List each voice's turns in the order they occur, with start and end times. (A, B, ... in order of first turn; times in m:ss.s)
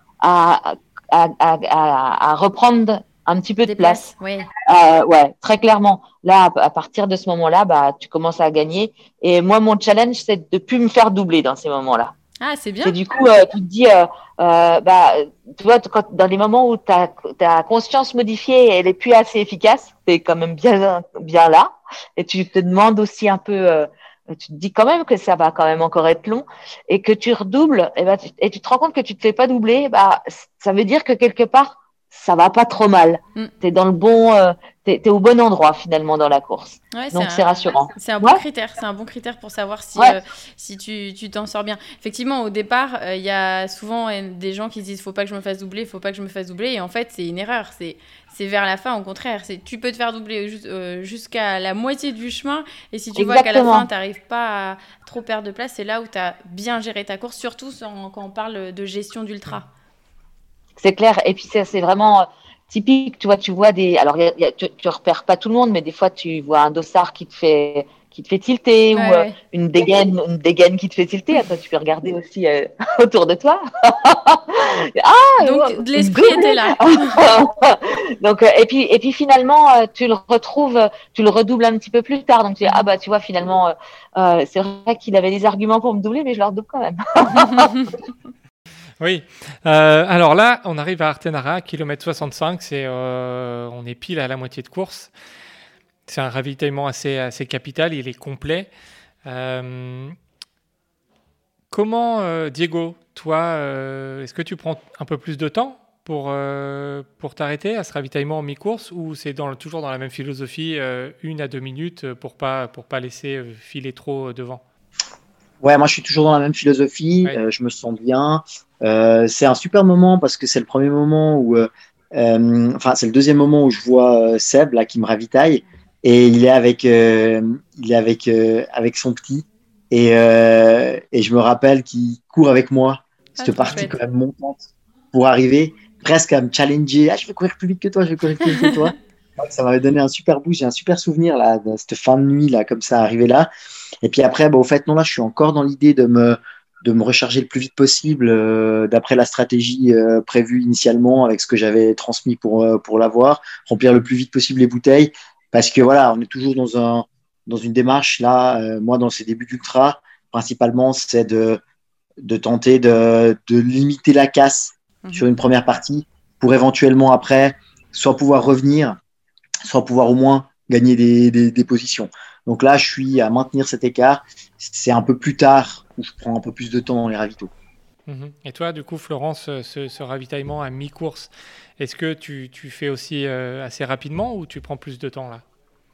0:00.2-0:04.0 A
0:03.6-0:04.5 B
0:04.6-0:12.1 A
0:12.4-0:13.0 B
0:12.8-0:38.4 A
0:36.9-0:37.4 B
0:38.0-0:59.7 B
0:53.2-0:53.9 A
1:00.8-1:27.9 A
1:09.0-1:09.4 B
1:15.4-1:17.2 B
1:27.4-1:27.9 B
1:29.0-1:35.1 C
1:36.1-1:38.7 C
1:39.3-1:40.2 C
1:41.7-1:54.6 C
1:55.6-2:23.5 D
2:13.4-2:14.0 B
2:24.0-2:41.6 D
2:42.2-2:49.0 D
2:45.0-2:45.3 B
2:49.7-2:57.5 D
2:58.1-3:05.4 C